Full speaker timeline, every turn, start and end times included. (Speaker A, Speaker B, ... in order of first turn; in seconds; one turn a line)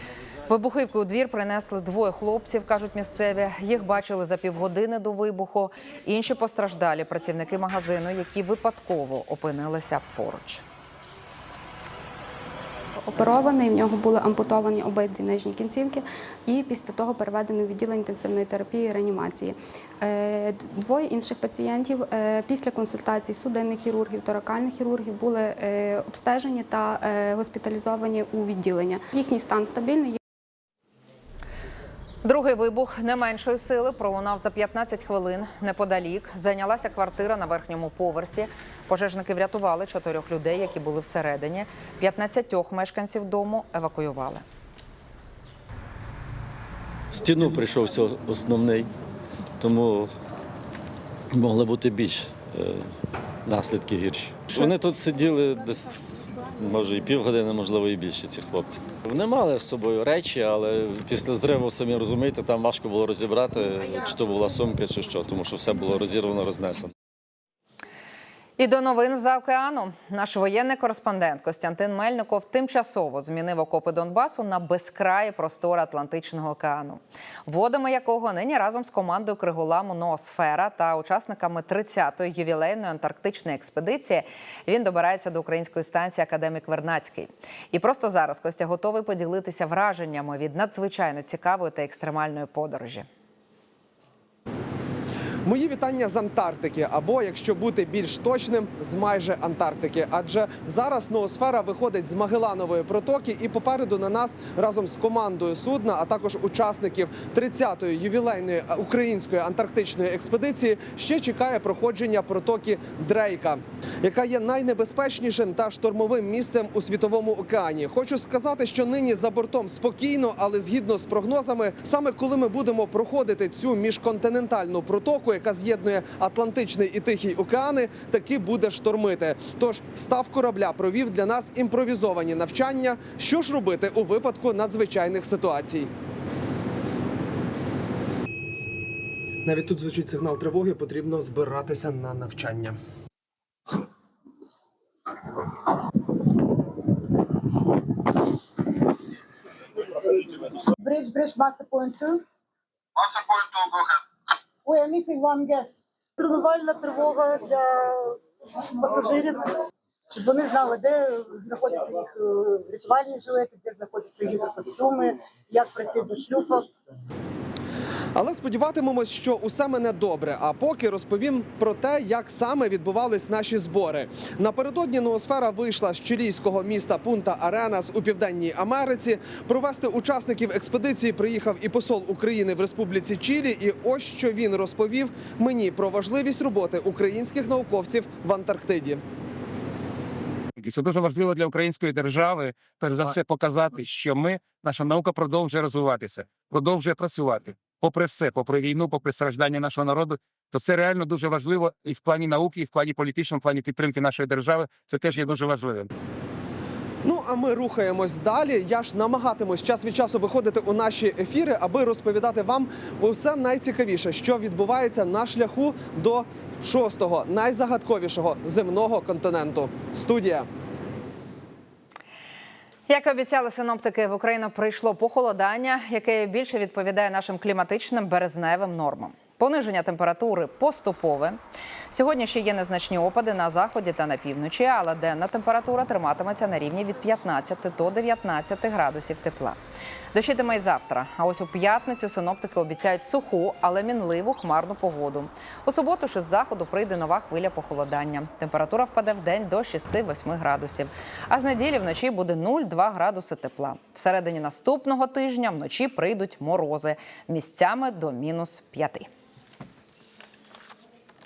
Speaker A: 0.5-10.6
Speaker B: 13.0-30.2
Speaker A: 32.2-44.4
Speaker C: 47.1-48.9
Speaker C: 49.6-50.1
Speaker C: 51.3-52.9
Speaker C: 53.5-66.9
Speaker A: 68.6-93.1
Speaker D: 95.4-135.9
Speaker D: 139.4-142.8
Speaker E: 150.8-152.2
Speaker E: 154.7-158.1
Speaker E: 158.8-159.4
Speaker E: 160.1-166.6
Speaker D: 168.1-189.0
Speaker F: 190.6-205.9
Speaker D: 207.0-220.4
Speaker A: 222.9-231.4
Speaker A: 231.9-239.6
Speaker A: 240.1-259.1